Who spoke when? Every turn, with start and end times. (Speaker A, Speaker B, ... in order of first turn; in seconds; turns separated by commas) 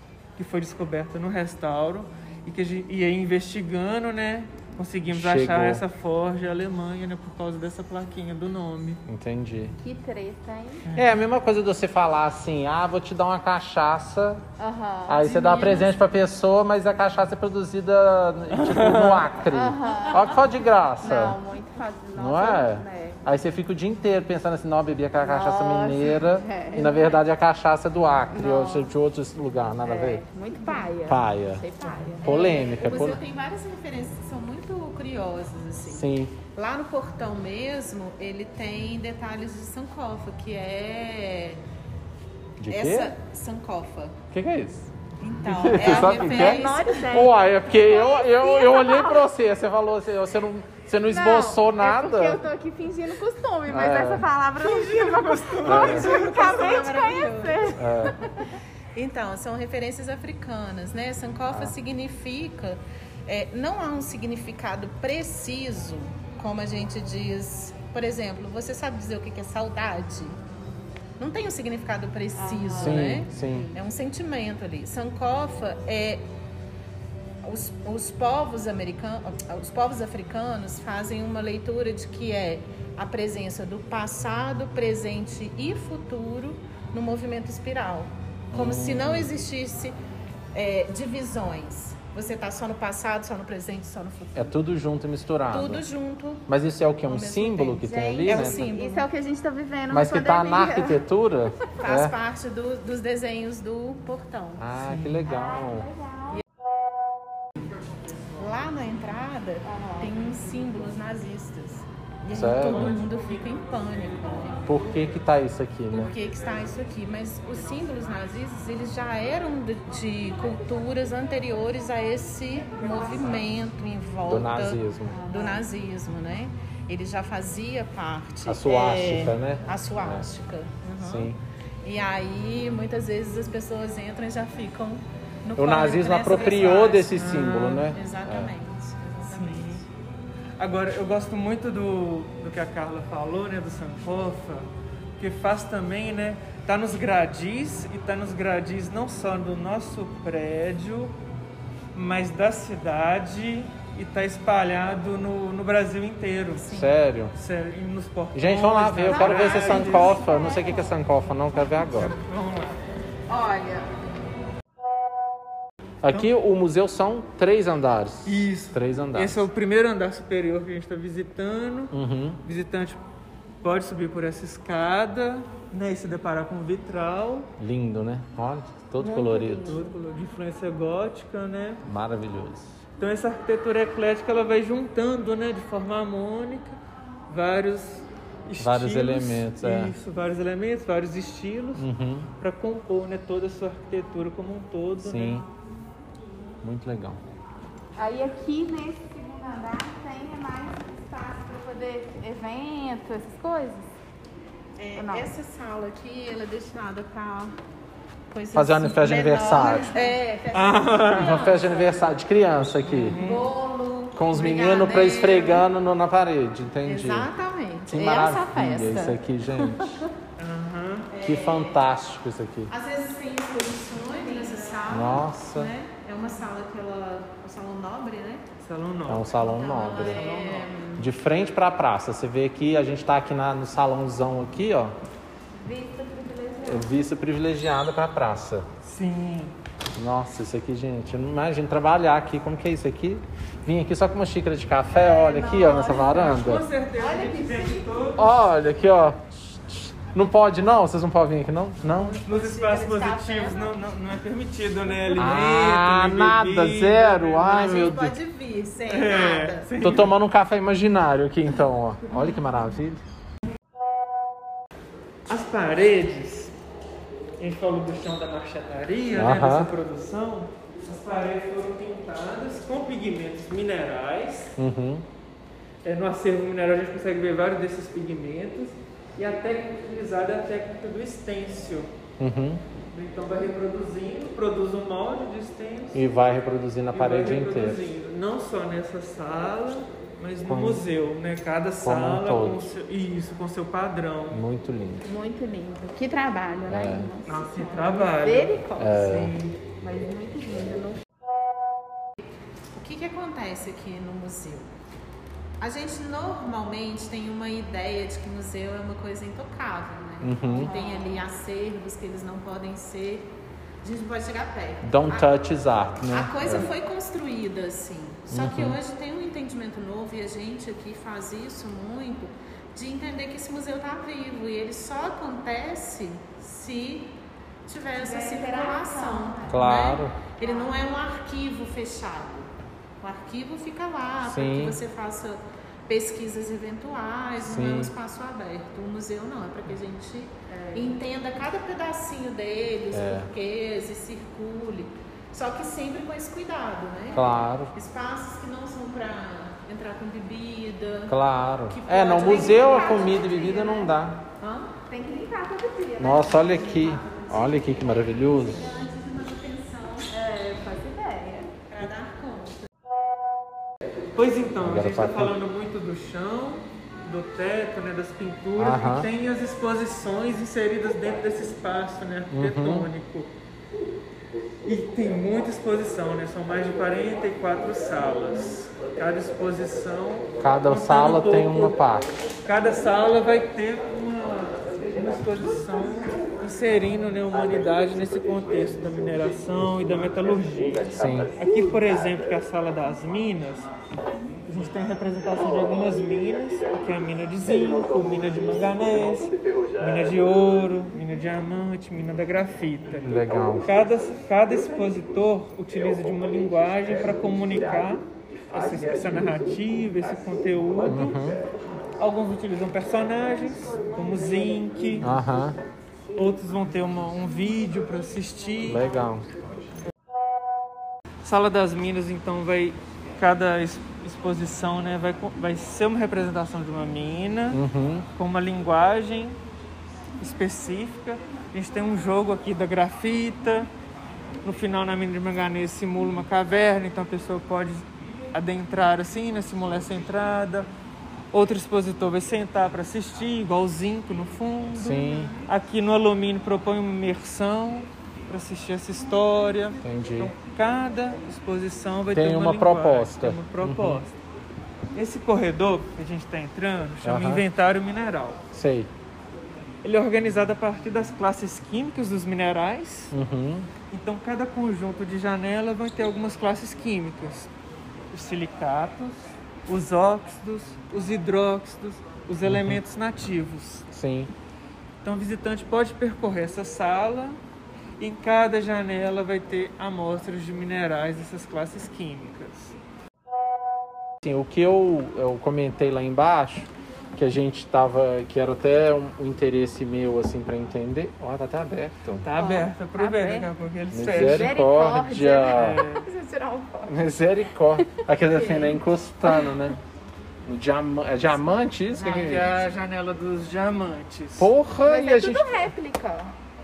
Speaker A: 0.4-9.0, Speaker B: 5.1-5.8, Speaker B: 9.1-9.8, Speaker C: 9.8-10.8, Speaker A: 10.9-11.2, Speaker B: 10.9-14.4, Speaker C: 14.6-15.9, Speaker B: 15.1-21.4, Speaker D: 15.4-15.8, Speaker A: 18.5-19.3, Speaker C: 19.5-23.2, Speaker B: 22.2-30.2, Speaker C: 25.2-27.2, Speaker C: 28.3-28.9, Speaker C: 29.8-32.9, Speaker B: 31.1-31.7, Speaker D: 31.8-41.6, Speaker B: 32.2-33.2, Speaker B: 35.9-36.4, Speaker B: 42.6-43.1, Speaker D: 42.7-44.2, Speaker B: 44.3-44.9, Speaker D: 45.2-47.1, Speaker B: 45.5-52.4, Speaker C: 45.7-49.3, Speaker C: 51.1-58.4, Speaker B: 53.7-54.3, Speaker A: 54.6-56.8, Speaker B: 55.6-56.1, Speaker D: 55.8-57.8, Speaker B: 57.8-58.2, Speaker D: 59.0-70.4, Speaker D: 71.2-76.3, Speaker C: 72.3-73.2, Speaker B: 72.8-73.7, Speaker D: 77.4-90.0, Speaker B: 88.5-89.3, Speaker D: 90.5-94.6, Speaker B: 94.3-95.9, Speaker D: 95.5-96.5, Speaker B: 96.5-98.6, Speaker D: 97.0-99.1, Speaker C: 98.2-101.0, Speaker B: 99.9-102.1, Speaker D: 101.8-104.7, Speaker B: 104.6-105.9, Speaker A: 104.8-105.2, Speaker C: 105.3-106.4, Speaker D: 108.4-114.7, Speaker C: 109.7-110.1, Speaker B: 112.3-113.0, Speaker A: 112.7-113.0, Speaker B: 114.7-116.1, Speaker D: 115.9-139.9, Speaker B: 124.3-125.2, Speaker C: 125.2-125.6, Speaker B: 128.5-130.3, Speaker B: 131.0-131.4, Speaker B: 135.6-138.5, Speaker A: 136.3-137.9, Speaker A: 139.3-139.8, Speaker A: 140.6-144.7, Speaker A: 145.2-151.1, Speaker A: 151.9-156.7, Speaker D: 156.6-156.9, Speaker B: 156.7-157.3, Speaker A: 157.3-160.2, Speaker B: 158.3-162.1, Speaker D: 159.1-160.9, Speaker C: 160.0-160.7, Speaker A: 161.9-162.8, Speaker D: 163.3-163.9, Speaker B: 166.0-169.5, Speaker A: 168.3-173.0, Speaker B: 171.9-172.4, Speaker A: 173.6-177.5, Speaker B: 177.6-179.8, Speaker C: 179.0-179.9, Speaker A: 179.7-181.8, Speaker B: 181.8-182.8, Speaker A: 183.0-186.8, Speaker A: 187.3-191.8, Speaker B: 188.6-189.9, Speaker B: 191.8-192.3, Speaker A: 192.4-195.5, Speaker B: 195.0-195.5, Speaker B: 196.6-197.2, Speaker C: 198.0-203.9, Speaker D: 204.8-207.6, Speaker C: 204.9-205.3, Speaker D: 208.3-212.2, Speaker B: 208.5-209.9, Speaker C: 209.7-210.2, Speaker A: 210.5-211.5, Speaker B: 211.1-213.2, Speaker A: 212.8-213.5, Speaker D: 213.1-215.7, Speaker B: 214.2-217.3, Speaker D: 216.8-220.1, Speaker B: 217.9-220.0, Speaker A: 220.4-221.1, Speaker D: 221.1-221.8, Speaker B: 221.2-222.7, Speaker D: 222.7-228.5, Speaker C: 224.1-225.1, Speaker B: 224.9-225.7, Speaker A: 228.6-229.4, Speaker B: 229.1-230.3, Speaker D: 229.3-231.1, Speaker A: 229.9-230.7, Speaker B: 231.0-234.9, Speaker C: 235.6-237.0, Speaker B: 236.7-238.7, Speaker A: 238.8-239.6, Speaker B: 240.0-246.7, Speaker C: 244.9-246.5, Speaker A: 246.2-248.3, Speaker C: 247.0-247.8, Speaker B: 248.2-252.2, Speaker D: 252.0-253.7, Speaker A: 252.2-258.0, Speaker B: 255.2-258.2, Speaker D: 257.5-259.7, Speaker A: 258.9-260.1, Speaker B: 259.8-263.0, Speaker A: 265.3-266.5, Speaker A: 267.4-274.6, Speaker B: 269.2-269.7, Speaker B: 274.6-275.1, Speaker A: 275.8-281.9, Speaker B: 282.2-282.6, Speaker A: 282.9-286.0, Speaker B: 285.9-287.8, Speaker A: 286.9-294.4, Speaker B: 290.4-290.8, Speaker B: 291.8-292.7, Speaker B: 294.3-295.1, Speaker C: 295.0-299.0, Speaker B: 296.7-297.1, Speaker A: 297.2-299.6, Speaker B: 298.8-299.4, Speaker C: 299.8-301.0, Speaker D: 302.7-304.7, Speaker D: 305.6-315.3, Speaker B: 310.2-310.7, Speaker C: 310.6-311.2, Speaker B: 314.8-316.7, Speaker D: 316.1-353.8, Speaker B: 318.3-318.8, Speaker C: 328.0-329.6, Speaker B: 329.5-330.2, Speaker C: 330.4-330.8, Speaker B: 334.2-334.8, Speaker B: 337.4-337.9, Speaker C: 340.5-341.0, Speaker B: 342.9-343.3, Speaker B: 347.1-347.7, Speaker B: 351.1-354.2, Speaker C: 352.1-353.9, Speaker D: 354.4-354.7, Speaker C: 354.9-357.7, Speaker B: 356.0-358.6, Speaker D: 358.2-360.1, Speaker C: 360.1-361.5, Speaker D: 361.7-362.6, Speaker A: 364.1-373.3, Speaker B: 364.6-365.3, Speaker B: 368.6-369.1, Speaker B: 372.3-372.9, Speaker A: 374.6-381.8, Speaker B: 380.4-382.1, Speaker A: 382.4-393.7, Speaker B: 390.9-391.3, Speaker A: 394.5-411.2, Speaker B: 403.0-403.7, Speaker B: 410.9-411.4, Speaker A: 412.0-415.1, Speaker B: 415.0-415.6, Speaker A: 416.1-418.8, Speaker B: 418.7-419.3, Speaker A: 421.2-427.6, Speaker B: 427.5-428.1, Speaker A: 428.2-429.4, Speaker A: 430.2-433.7, Speaker A: 434.4-440.7, Speaker A: 441.3-454.1, Speaker B: 444.8-445.4, Speaker B: 449.8-450.3, Speaker B: 452.1-454.0, Speaker A: 454.9-458.4, Speaker B: 457.0-457.4, Speaker B: 458.5-458.9, Speaker A: 459.8-463.1, Speaker B: 463.1-463.7, Speaker A: 463.9-467.5, Speaker A: 468.1-473.9, Speaker B: 472.5-472.8, Speaker B: 473.9-474.3, Speaker A: 475.0-477.4, Speaker A: 478.0-482.8, Speaker B: 484.2-492.3, Speaker A: 492.2-494.6, Speaker C: 492.4-493.5, Speaker B: 493.9-495.8, Speaker C: 494.1-496.9, Speaker A: 495.3-496.1, Speaker B: 496.9-499.8, Speaker C: 498.3-498.8, Speaker B: 500.4-502.5, Speaker A: 502.0-504.5, Speaker B: 504.4-505.7, Speaker C: 504.9-506.3